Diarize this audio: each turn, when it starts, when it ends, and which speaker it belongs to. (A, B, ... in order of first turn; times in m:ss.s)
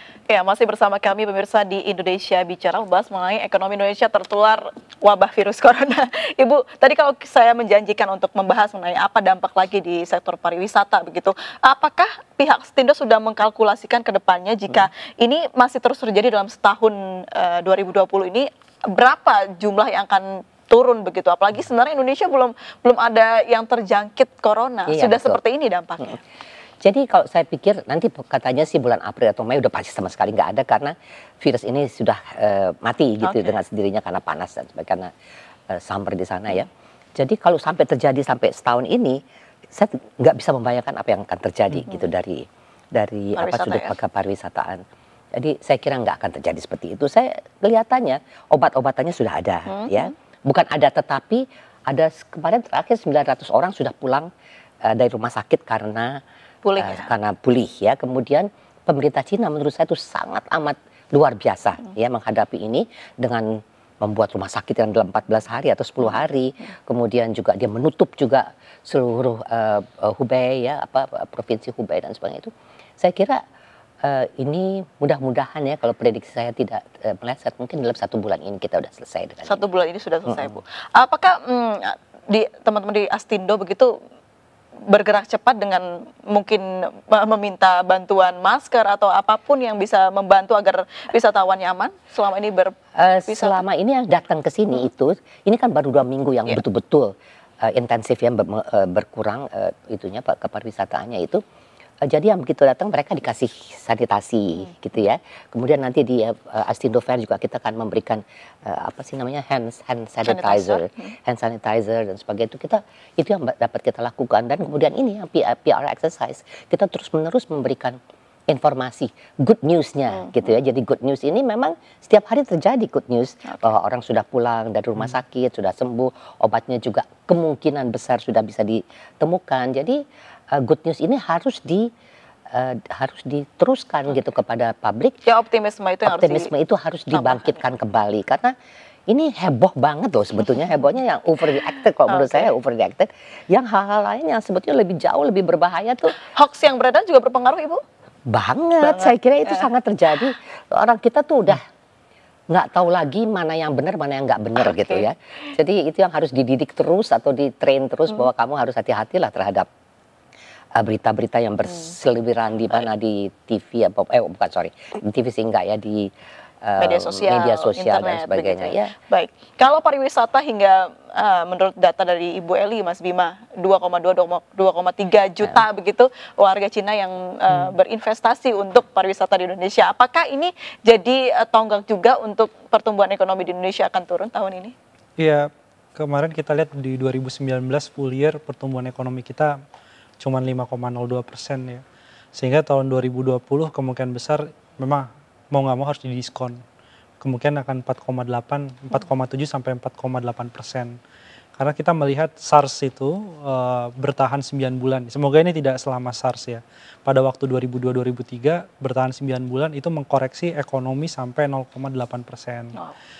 0:00.3-0:26.2 A
0:24.9-0:25.4 B
0:26.8-0:35.1 B
0:33.2-0:33.6 A
0:35.7-0:39.2 B
0:39.7-0:44.8 B
0:43.4-0:43.9 A
0:45.4-0:54.3 B
0:49.7-0:50.1 A
0:54.8-0:56.2 B
0:56.6-0:57.1 A
0:56.8-1:13.4 B
1:14.0-1:19.6 B
1:19.4-1:23.9 A
1:20.2-1:20.6 B
1:24.9-1:32.7 A
1:33.0-1:41.4 B
1:33.3-1:33.6 A
1:42.0-1:58.0 B
1:50.2-1:51.1 A
1:58.5-2:10.0 B
2:00.2-2:00.5 A
2:03.4-2:03.8 A
2:10.5-2:11.9 B
2:12.5-2:15.2 B
2:15.2-2:16.5 A
2:16.0-2:18.5 B
2:17.1-2:17.6 A
2:19.1-2:26.1 B
2:22.1-2:22.5 A
2:26.1-2:27.8 A
2:28.3-2:31.6 B
2:28.8-2:29.7 A
2:32.5-2:39.7 B
2:34.6-2:35.1 A
2:40.7-2:46.1 B
2:46.6-2:48.9 B
2:46.8-3:04.7 A
2:57.5-2:57.7 C
3:05.2-3:09.5 C
3:10.2-3:11.8 C
3:12.3-3:16.6 C
3:17.2-3:20.9 C
3:21.6-3:32.8 C